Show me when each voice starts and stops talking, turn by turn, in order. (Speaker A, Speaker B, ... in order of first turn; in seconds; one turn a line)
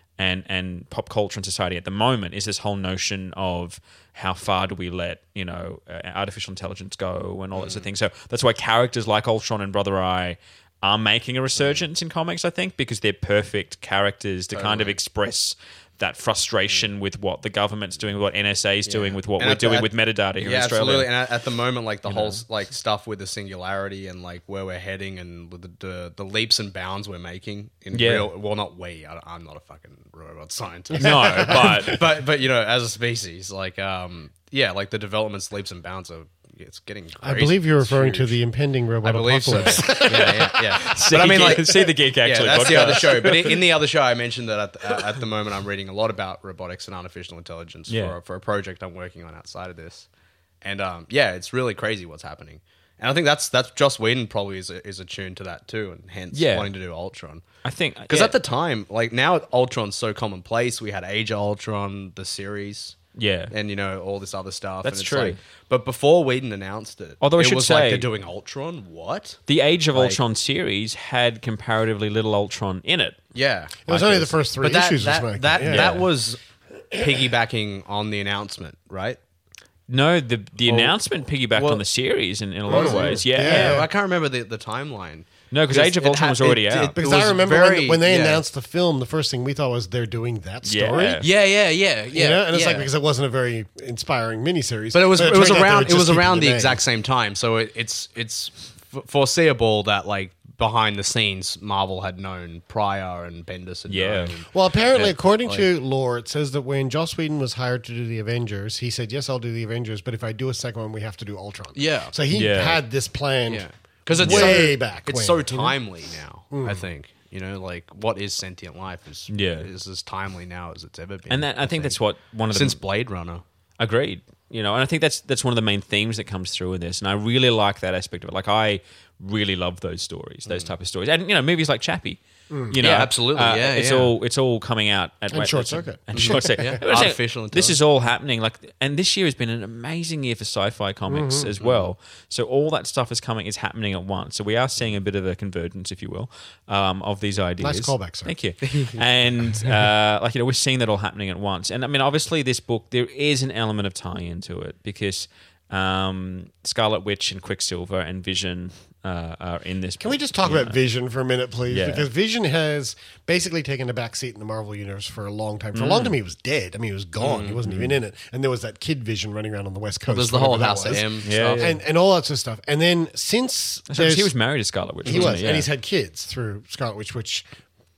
Speaker A: 0.2-21.1
Speaker B: 7.5-7.9
Speaker B: 11.6-11.8
Speaker B: 14.5-15.0
Speaker B: 18.9-38.4
Speaker A: 22.1-22.4
Speaker A: 27.9-28.3
Speaker A: 31.0-32.0
Speaker C: 31.1-31.8
Speaker C: 37.2-40.6
Speaker B: 39.0-50.1
Speaker A: 40.8-43.5
Speaker A: 47.9-48.1
Speaker B: 50.6-57.4
Speaker A: 56.3-56.7
Speaker A: 57.6-58.4
Speaker B: 58.1-63.0
Speaker A: 63.1-63.5
Speaker B: 63.5-70.2
Speaker A: 64.8-65.4
Speaker A: 67.2-68.1
Speaker A: 69.5-73.2
Speaker B: 73.3-76.4
Speaker C: 73.9-76.0
Speaker A: 73.9-74.3
Speaker A: 75.6-76.0
Speaker B: 76.9-79.2
Speaker A: 79.9-83.8
Speaker B: 80.7-81.0
Speaker B: 81.5-81.8
Speaker C: 82.7-83.9
Speaker B: 82.7-88.4
Speaker A: 85.5-87.0
Speaker C: 87.0-91.2
Speaker A: 90.6-91.2
Speaker B: 91.2-92.9
Speaker C: 92.1-96.8
Speaker B: 94.9-105.7
Speaker A: 103.9-104.3
Speaker C: 104.5-115.8
Speaker B: 111.7-112.1
Speaker A: 112.3-112.8
Speaker B: 113.5-122.0
Speaker A: 114.2-114.7
Speaker C: 116.5-116.8
Speaker A: 119.3-119.7
Speaker A: 121.3-122.8
Speaker B: 122.5-123.4
Speaker A: 123.8-160.8
Speaker B: 130.5-130.7
Speaker C: 132.5-132.8
Speaker B: 132.8-134.1
Speaker C: 135.3-136.8
Speaker B: 136.1-137.8
Speaker C: 141.1-141.5
Speaker B: 141.6-141.9
Speaker C: 147.6-148.3
Speaker C: 160.0-174.3
Speaker A: 161.7-162.1
Speaker A: 165.7-166.2
Speaker B: 167.2-167.7
Speaker B: 170.1-171.7
Speaker A: 171.2-171.8
Speaker A: 173.9-175.7
Speaker C: 175.0-177.4
Speaker B: 175.1-175.3